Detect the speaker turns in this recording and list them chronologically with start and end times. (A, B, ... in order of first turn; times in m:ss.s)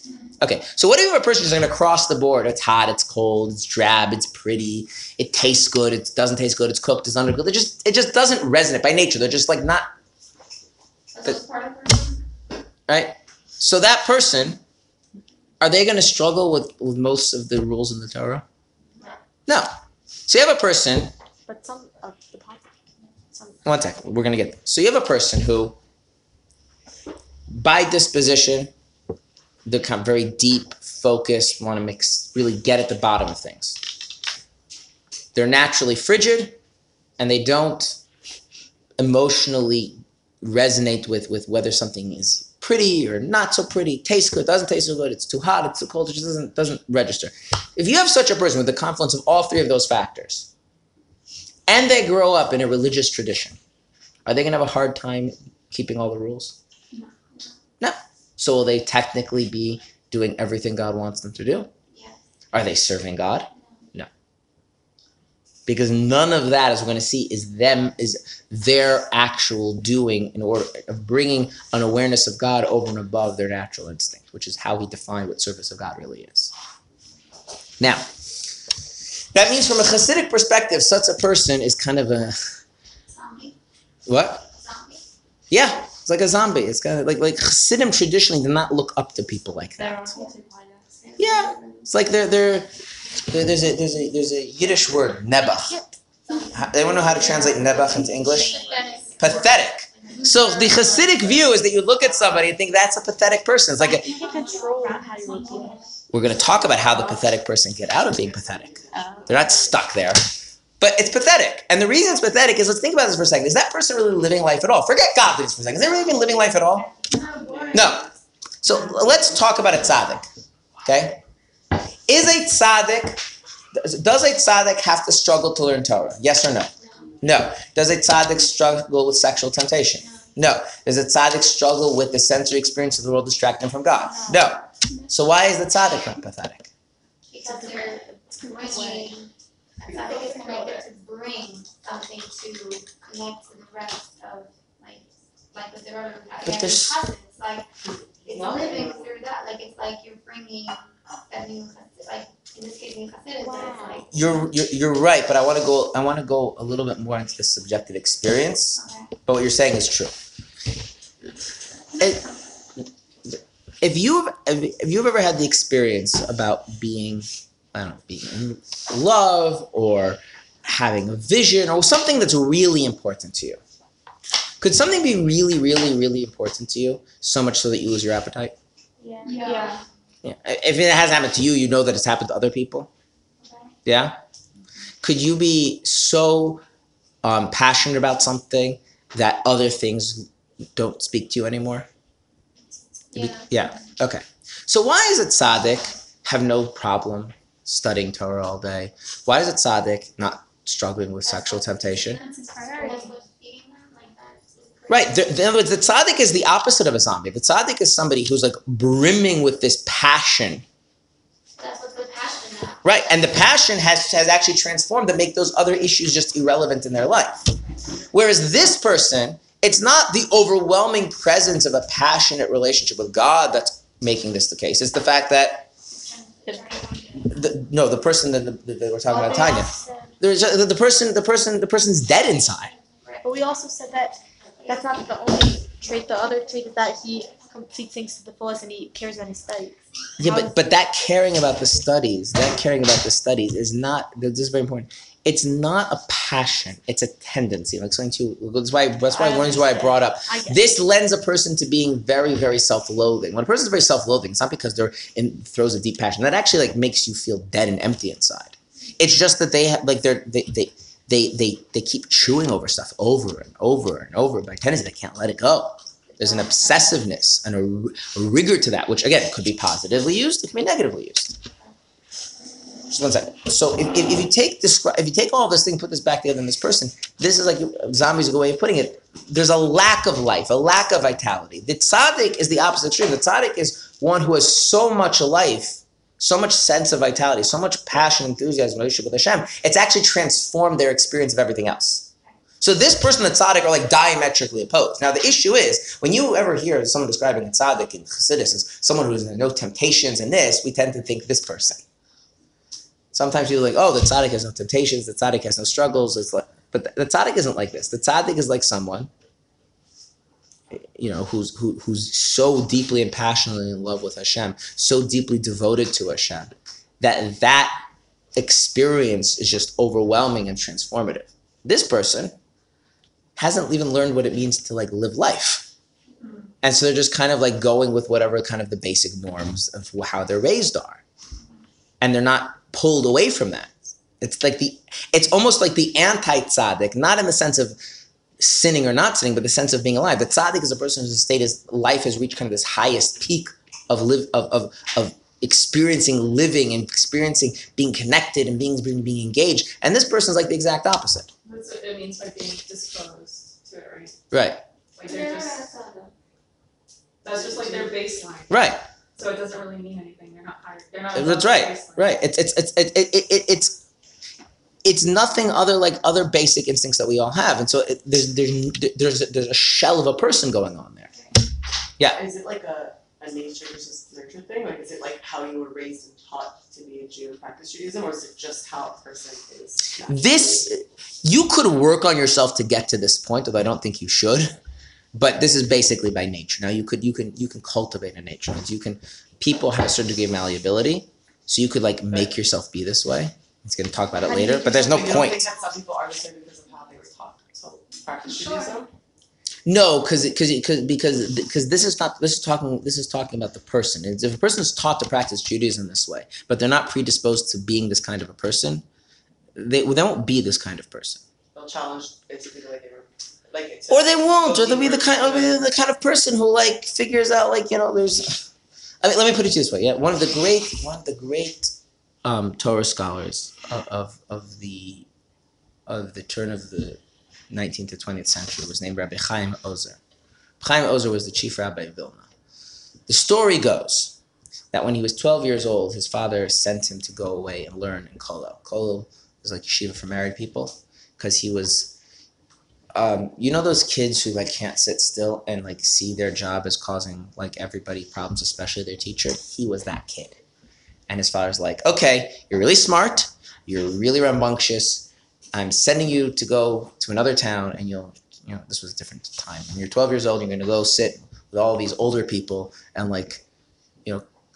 0:00.4-0:09.9 A
0:11.1-0:12.2 B
0:12.9-0:14.6 A
0:15.6-0:18.4 A
0:20.3-0:21.1 A
0:21.5-0:22.8 C
0:23.3-0:23.6 C
0:23.6-0:25.8 A
0:27.5-0:28.7 A
0:29.6-0:33.8 A
0:35.3-0:36.6 A
0:37.2-0:38.0 A
0:39.0-0:50.5 A
0:51.7-0:53.6 A
0:54.2-0:56.6 A
0:56.9-0:57.4 B
0:57.8-1:01.7 A
1:01.9-1:02.2 B
1:02.5-1:04.1 A
1:05.7-1:16.5 A
1:17.8-1:18.1 A
1:19.3-1:22.6 A
1:23.1-1:23.6 B
1:24.1-1:24.5 A
1:24.5-1:25.0 B
1:25.5-1:30.1 A
1:29.8-1:30.4 B
1:30.1-1:31.3 C
1:31.0-1:31.9 B
1:31.2-1:35.8 A
1:35.7-1:35.9 C
1:36.2-1:40.3 B
1:36.5-1:38.6 A
1:38.5-1:39.0 D
1:39.2-1:44.1 A
1:40.4-1:40.9 E
1:43.8-1:45.9 B
1:44.0-1:45.8 C
1:46.1-1:56.9 A
1:48.9-1:49.5 C
1:56.9-1:58.0 B
1:57.3-1:58.0 D
1:57.7-1:58.1 A
1:58.6-2:00.2 A
2:00.8-2:01.2 A
2:02.1-2:03.2 A
2:03.7-2:16.7 A
2:06.8-2:07.1 B
2:14.0-2:14.6 C
2:17.3-2:27.7 B
2:17.4-2:19.2 C
2:20.0-2:20.8 E
2:26.4-2:27.0 A
2:28.2-2:29.1 D
2:28.2-2:34.5 B
2:33.4-2:34.0 C
2:34.1-2:40.1 A
2:38.8-2:39.1 B
2:42.0-2:42.3 A
2:43.3-2:53.6 A
2:54.6-2:58.6 A
2:59.0-2:59.8 B
2:59.2-2:59.8 C
2:59.3-2:59.8 E
3:00.2-3:02.9 A
3:03.4-3:03.7 B
3:03.8-3:04.2 A
3:05.0-3:06.6 A
3:07.2-3:11.9 A
3:13.1-3:13.7 B
3:13.1-3:22.2 A
3:21.2-3:25.3 B
3:22.3-3:23.1 C
3:24.9-3:30.6 A
3:31.6-3:32.9 B
3:32.8-3:37.6 A
3:38.1-3:45.7 A
3:45.9-3:47.3 B
3:47.2-3:52.7 A
3:49.1-3:50.1 C
3:49.1-3:49.7 B
3:52.6-3:57.5 B
3:53.2-4:00.6 C
4:00.2-4:31.4 A
4:09.1-4:10.7 C
4:26.2-4:26.9 B
4:32.9-4:52.1 A
4:52.6-5:01.8 A
5:03.1-5:09.1 A
5:10.7-5:17.8 A
5:18.4-5:22.3 A
5:23.4-5:25.7 A
5:26.6-5:31.0 A
5:32.0-5:37.8 A
5:38.4-5:51.3 A
5:51.4-5:54.2 E
5:54.3-5:54.6 A
5:55.0-5:55.7 E
5:55.5-5:56.1 B
5:57.2-5:58.5 E
5:57.3-5:58.4 D
5:58.5-5:58.8 A
5:59.2-6:02.2 E
6:01.1-6:03.8 A
6:04.8-6:11.1 A
6:12.1-6:20.7 D
6:20.1-6:24.5 A
6:25.1-6:35.4 A
6:34.2-6:38.9 D
6:34.7-6:35.3 C
6:39.6-6:48.8 A
6:49.6-6:51.2 A
6:51.5-6:55.6 D
6:53.9-6:58.5 A
6:59.0-7:01.7 A
7:02.2-7:05.1 A
7:05.9-7:07.0 A
7:07.5-7:10.0 A
7:10.6-7:12.3 A
7:13.1-7:14.1 A
7:14.7-7:21.9 A
7:22.9-7:30.4 A
7:31.1-7:43.4 A